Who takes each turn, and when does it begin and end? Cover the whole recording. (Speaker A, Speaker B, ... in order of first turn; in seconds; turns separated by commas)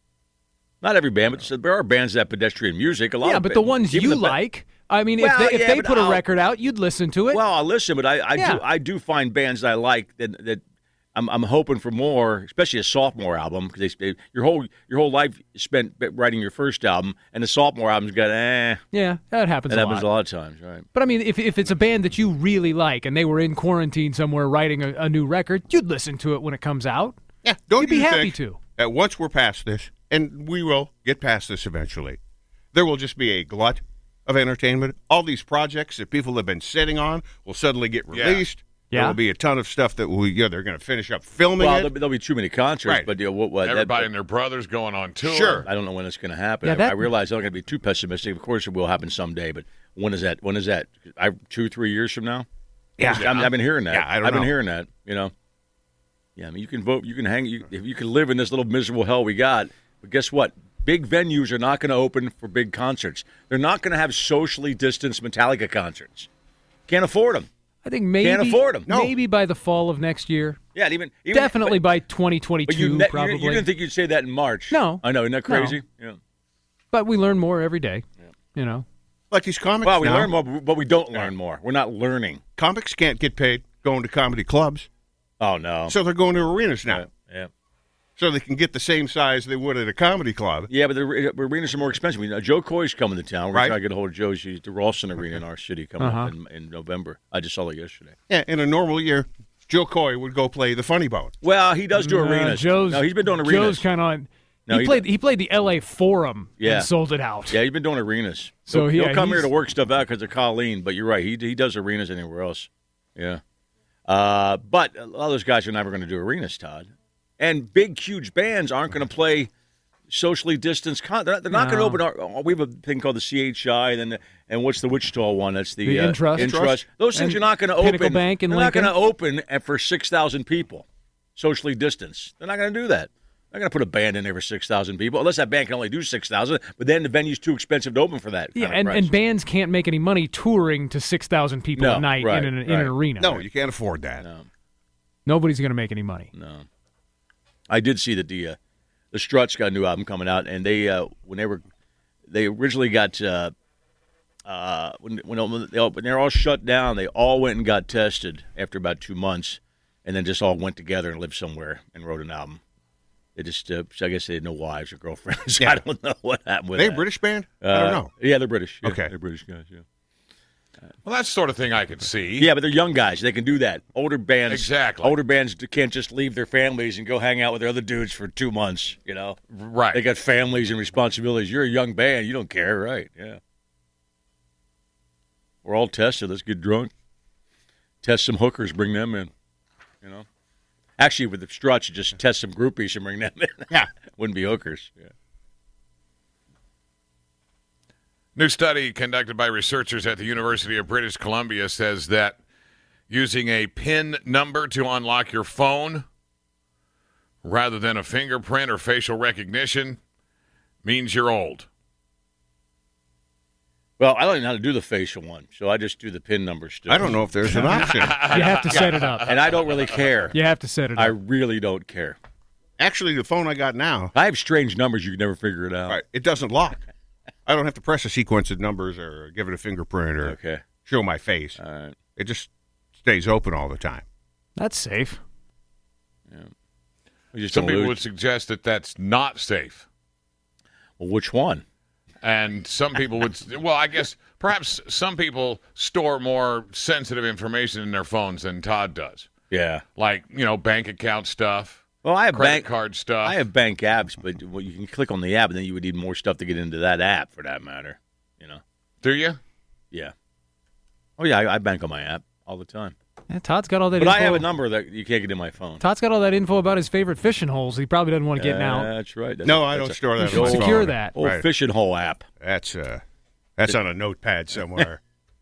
Speaker A: 0.8-4.4, Speaker B: 3.2-7.4, Speaker A: 5.2-6.2, Speaker A: 7.3-10.6, Speaker B: 8.3-8.6, Speaker A: 11.1-18.8, Speaker B: 18.9-20.1, Speaker A: 19.7-20.9, Speaker B: 20.9-27.2, Speaker C: 27.4-32.2, Speaker B: 27.8-28.6, Speaker C: 32.7-41.9, Speaker D: 38.1-38.4, Speaker B: 38.9-39.2, Speaker A: 41.6-44.1, Speaker D: 43.6-45.6, Speaker C: 45.2-45.7, Speaker A: 45.6-52.5, Speaker B: 46.6-47.1, Speaker C: 53.0-54.5, Speaker A: 53.0-55.3, Speaker D: 53.1-53.4, Speaker A: 56.4-66.3, Speaker A: 66.9-67.5, Speaker B: 67.8-70.6, Speaker A: 68.2-68.9, Speaker C: 68.9-69.1, Speaker A: 70.7-71.8, Speaker B: 71.3-73.7, Speaker A: 72.7-76.2, Speaker B: 74.7-75.8, Speaker B: 76.9-78.8, Speaker C: 79.3-80.3, Speaker A: 79.8-82.4, Speaker C: 82.6-84.9, Speaker A: 85.4-86.0, Speaker C: 85.9-87.0, Speaker A: 86.9-87.5, Speaker C: 88.2-90.7, Speaker A: 90.7-98.1, Speaker B: 96.0-96.3, Speaker C: 98.3-101.3, Speaker A: 101.4-103.8, Speaker B: 102.0-107.6, Speaker A: 104.7-105.0, Speaker A: 106.6-106.9, Speaker A: 107.5-113.4, Speaker B: 108.7-109.5, Speaker A: 114.1-119.5, Speaker A: 120.1-130.8, Speaker B: 121.5-122.0, Speaker B: 125.8-126.6, Speaker C: 126.3-126.8, Speaker B: 127.1-128.9, Speaker A: 131.3-139.1, Speaker B: 138.6-143.4, Speaker A: 141.8-142.9, Speaker C: 143.2-144.2, Speaker A: 144.2-144.5, Speaker B: 145.2-146.3, Speaker A: 146.3-146.7, Speaker A: 147.7-148.6, Speaker A: 149.1-151.6, Speaker A: 152.3-153.5, Speaker A: 154.4-162.6, Speaker A: 163.3-167.0, Speaker C: 166.7-168.1, Speaker A: 167.6-169.8, Speaker C: 168.8-169.1, Speaker D: 171.0-172.5, Speaker A: 172.4-179.4, Speaker D: 174.5-175.1, Speaker D: 179.5-180.0, Speaker A: 179.9-183.4, Speaker A: 185.6-186.9, Speaker A: 188.0-189.3, Speaker A: 191.0-195.1, Speaker D: 198.3-202.4, Speaker D: 203.1-206.1, Speaker D: 207.4-210.0, Speaker D: 210.8-211.7, Speaker A: 214.0-217.3, Speaker C: 216.9-218.7, Speaker D: 217.6-219.3, Speaker B: 218.3-219.3, Speaker A: 219.2-220.3, Speaker B: 220.3-221.1, Speaker A: 220.9-222.2, Speaker C: 222.8-224.1, Speaker A: 224.1-226.0, Speaker C: 225.9-226.8, Speaker C: 227.4-231.6, Speaker A: 230.2-230.6, Speaker A: 231.6-231.9, Speaker C: 232.2-234.0, Speaker B: 234.6-235.2, Speaker A: 237.3-238.0, Speaker D: 237.5-239.8, Speaker A: 241.0-241.6, Speaker D: 242.2-249.3, Speaker A: 249.5-249.8, Speaker D: 249.9-253.4, Speaker A: 252.0-252.7, Speaker A: 253.2-258.6, Speaker D: 259.0-259.4, Speaker A: 261.2-262.9, Speaker B: 263.3-264.4, Speaker A: 264.0-265.8, Speaker B: 265.8-268.9, Speaker A: 268.4-272.2, Speaker C: 269.4-271.4, Speaker B: 270.2-271.1, Speaker C: 272.4-273.0, Speaker C: 273.6-275.0